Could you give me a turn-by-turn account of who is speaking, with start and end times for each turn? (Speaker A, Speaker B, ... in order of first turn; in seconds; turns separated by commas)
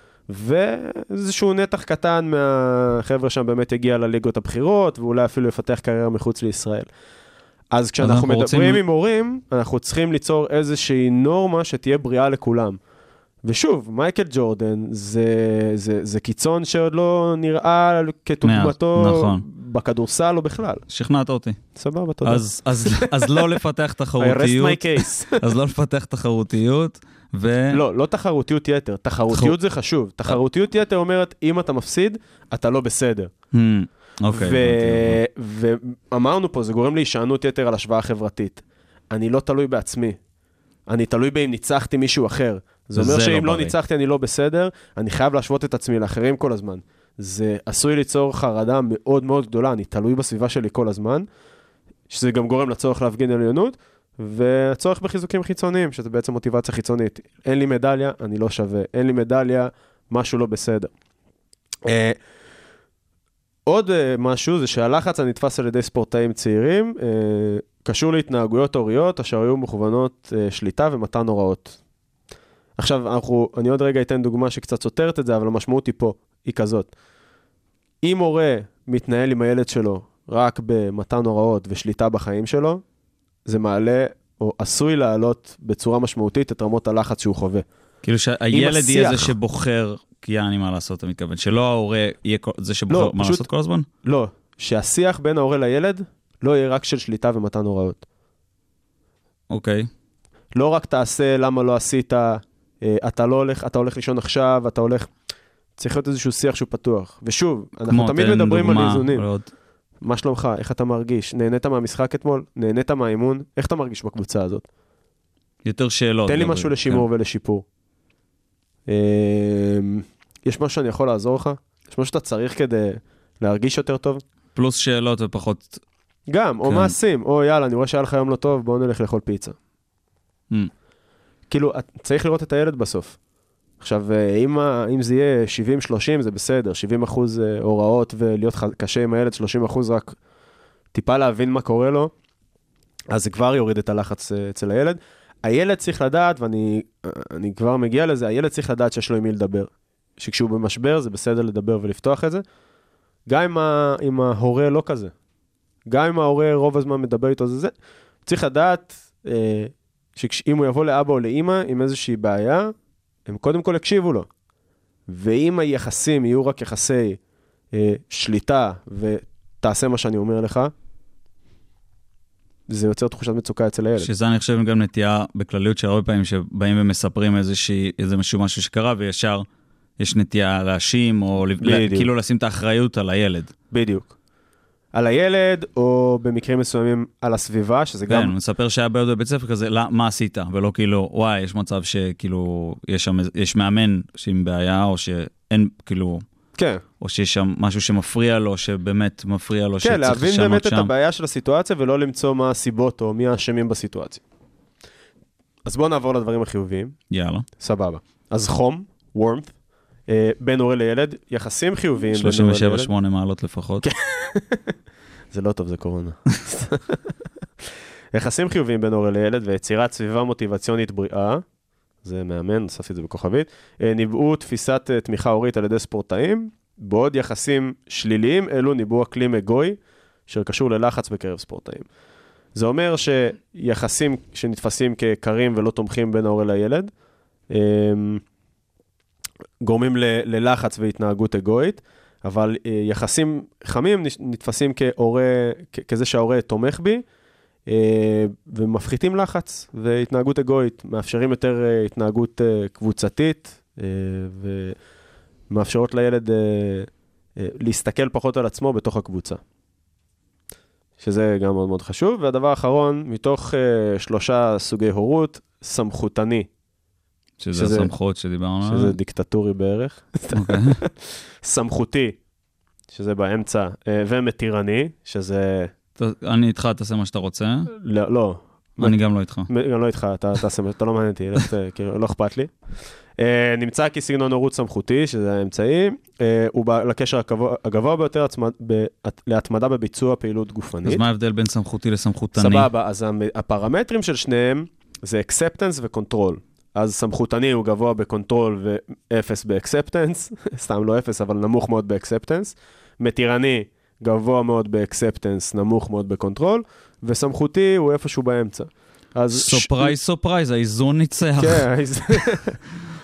Speaker A: 0.3-6.9, Speaker A: 7.7-12.8, Speaker B: 8.0-8.8, Speaker A: 13.4-20.9, Speaker B: 18.4-19.4, Speaker B: 20.9-21.6, Speaker A: 21.8-23.4, Speaker B: 22.2-27.8, Speaker A: 24.2-25.4, Speaker A: 27.7-33.3, Speaker B: 29.3-29.6, Speaker B: 33.5-35.2, Speaker A: 34.3-40.2, Speaker A: 40.9-51.3, Speaker B: 43.0-43.8, Speaker A: 52.1-60.9, Speaker A: 61.9-62.2, Speaker A: 63.7-71.8, Speaker A: 72.8-76.9, Speaker A: 78.0-82.8, Speaker A: 83.5-87.7, Speaker B: 88.0-93.9, Speaker A: 88.5-89.3, Speaker A: 92.9-93.5, Speaker A: 94.0-98.0, Speaker B: 99.5-99.9, Speaker A: 100.5-105.1, Speaker A: 105.8-109.3, Speaker B: 107.9-109.5, Speaker A: 110.0-114.7, Speaker B: 115.6-117.0, Speaker A: 116.3-117.7, Speaker A: 118.9-124.2, Speaker B: 124.5-125.8, Speaker A: 126.3-129.6, Speaker B: 126.6-127.0, Speaker A: 131.5-133.2, Speaker A: 133.8-140.2, Speaker A: 140.9-142.1, Speaker A: 143.1-152.4, Speaker A: 153.3-155.1, Speaker A: 155.9-157.7, Speaker A: 158.2-162.7, Speaker A: 163.3-164.3, Speaker A: 165.1-167.2, Speaker A: 167.7-170.7, Speaker A: 172.7-174.1, Speaker B: 174.0-179.5, Speaker B: 180.0-183.5, Speaker A: 181.6-182.1, Speaker A: 183.7-184.2, Speaker A: 184.9-188.3, Speaker B: 188.1-196.2, Speaker A: 196.6-196.8, Speaker B: 197.0-200.9, Speaker A: 199.8-204.2, Speaker A: 205.7-207.0, Speaker B: 207.1-207.5, Speaker A: 207.6-209.5, Speaker A: 210.1-212.9, Speaker B: 212.1-213.9, Speaker A: 213.8-214.7, Speaker A: 215.3-217.0, Speaker A: 218.1-221.4, Speaker A: 222.0-231.9, Speaker A: 232.6-236.9, Speaker A: 237.5-238.2, Speaker A: 239.6-247.0, Speaker A: 247.7-254.8, Speaker A: 255.5-259.4, Speaker A: 261.0-266.5, Speaker B: 267.4-268.9, Speaker A: 267.5-267.9, Speaker A: 268.6-272.2, Speaker B: 270.3-270.8, Speaker A: 272.9-275.7, Speaker B: 276.0-277.7, Speaker A: 277.8-282.5, Speaker B: 278.8-279.5, Speaker A: 283.2-291.0, Speaker B: 290.8-292.7, Speaker A: 292.4-309.9, Speaker B: 309.3-311.7, Speaker A: 311.4-312.6